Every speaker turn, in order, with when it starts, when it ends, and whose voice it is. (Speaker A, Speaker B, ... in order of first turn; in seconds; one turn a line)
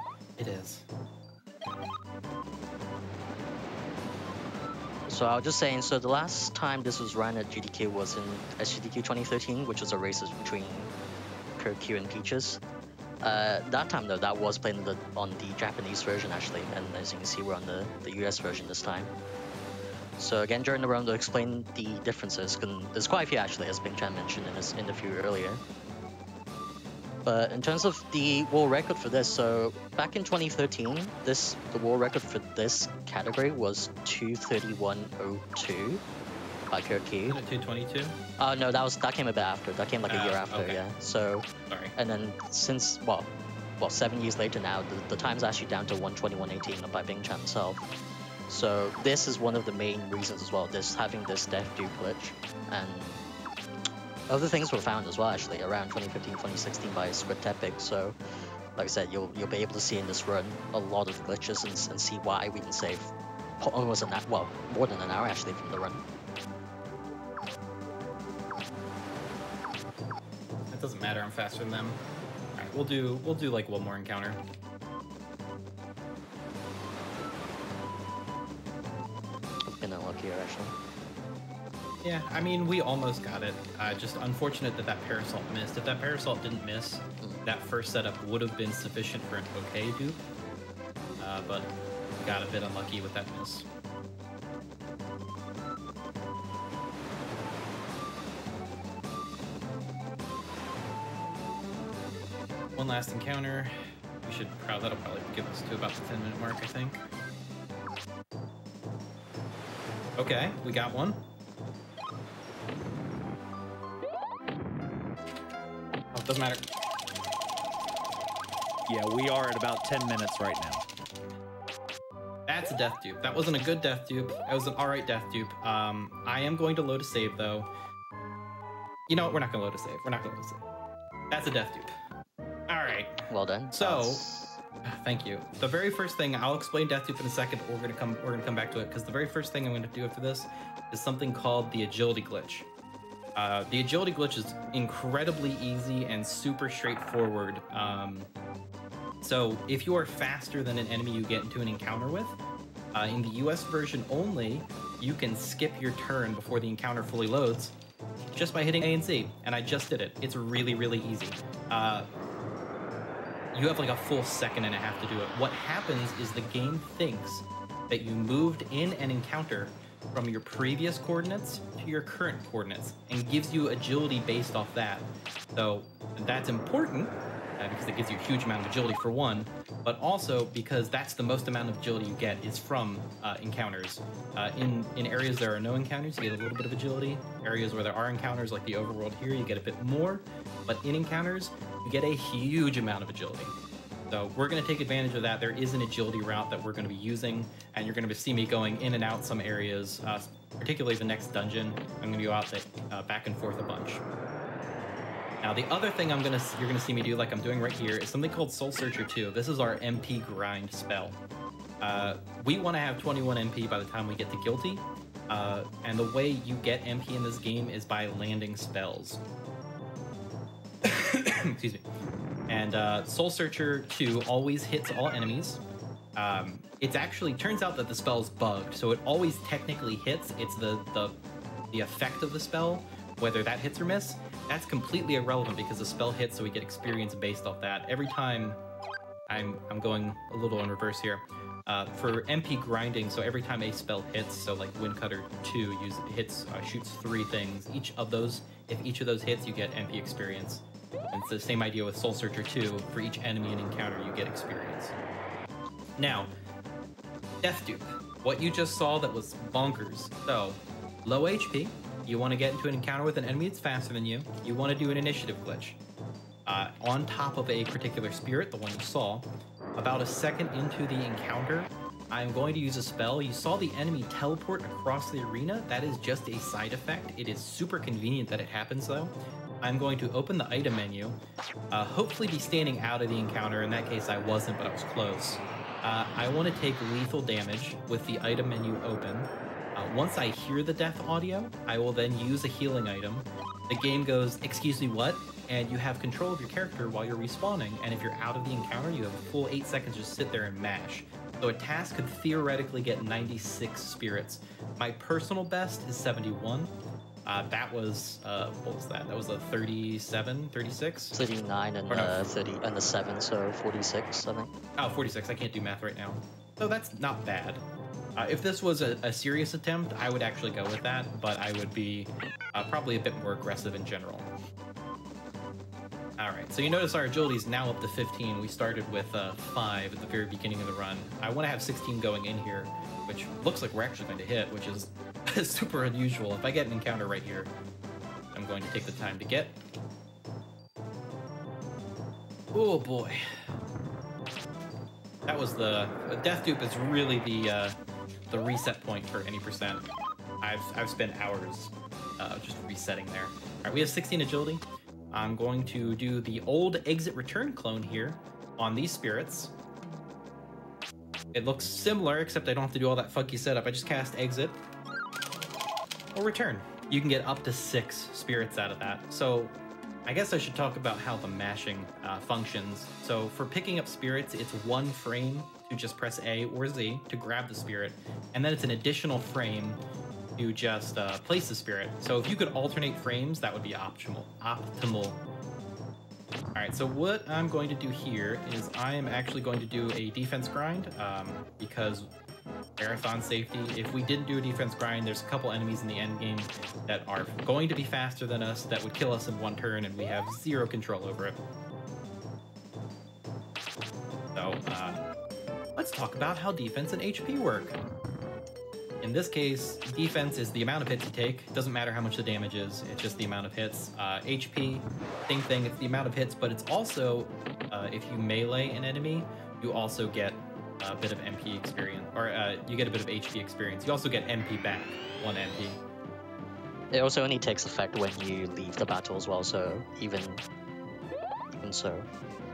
Speaker A: 0.4-0.8
Speaker B: 5.1-10.9
Speaker B: 11.6-12.6
Speaker B: 13.2-19.1
Speaker B: 20.2-25.6
Speaker B: 27.2-36.0
Speaker B: 36.7-37.4
Speaker A: 37.2-38.2
Speaker B: 38.4-47.9
Speaker A: 40.1-40.8
Speaker A: 41.7-41.9
Speaker B: 48.5-53.2
Speaker B: 54.3-58.2
Speaker B: 58.8-66.0
Speaker A: 70.7-72.0
Speaker A: 72.6-74.4
Speaker B: 79.6-80.8
Speaker A: 82.0-90.2
Speaker A: 91.2-93.7
Speaker A: 102.8-107.0
Speaker A: 110.2-111.2
Speaker A: 116.1-116.7
Speaker C: 118.9-120.8
Speaker A: 122.5-127.7
Speaker A: 129.1-130.6
Speaker A: 131.3-131.9
Speaker A: 132.7-133.2
Speaker B: 133.3-134.6
Speaker A: 133.7-134.2
Speaker A: 134.8-142.7
Speaker A: 143.4-148.3
Speaker A: 149.2-152.4
Speaker A: 152.9-157.8
Speaker A: 158.3-162.1
Speaker A: 163.5-193.5
Speaker A: 194.1-204.0
Speaker A: 205.4-211.2
Speaker A: 211.8-219.2
Speaker A: 220.8-221.8
Speaker A: 222.5-225.6
Speaker A: 226.2-231.2
Speaker A: 231.7-238.6
Speaker A: 239.3-254.9
Speaker A: 256.0-256.3
Speaker A: 257.4-265.8
Speaker A: 266.5-281.2
Speaker A: 281.7-306.7
Speaker A: 307.2-311.2
Speaker B: 311.1-314.5
Speaker A: 311.9-312.3
Speaker A: 314.8-317.6
Speaker A: 318.2-324.3
Speaker A: 326.2-337.5
Speaker A: 338.3-339.6
Speaker A: 342.5-343.4
Speaker A: 345.3-347.8
Speaker A: 348.3-349.9
Speaker A: 350.4-359.5
Speaker A: 361.3-364.6
Speaker A: 366.1-369.5
Speaker A: 370.1-379.8
Speaker A: 380.4-385.2
Speaker A: 386.6-392.1
Speaker A: 392.8-401.4
Speaker A: 404.4-405.0
Speaker A: 405.8-407.8
Speaker A: 409.0-425.8
Speaker B: 426.9-430.4
Speaker B: 431.6-432.1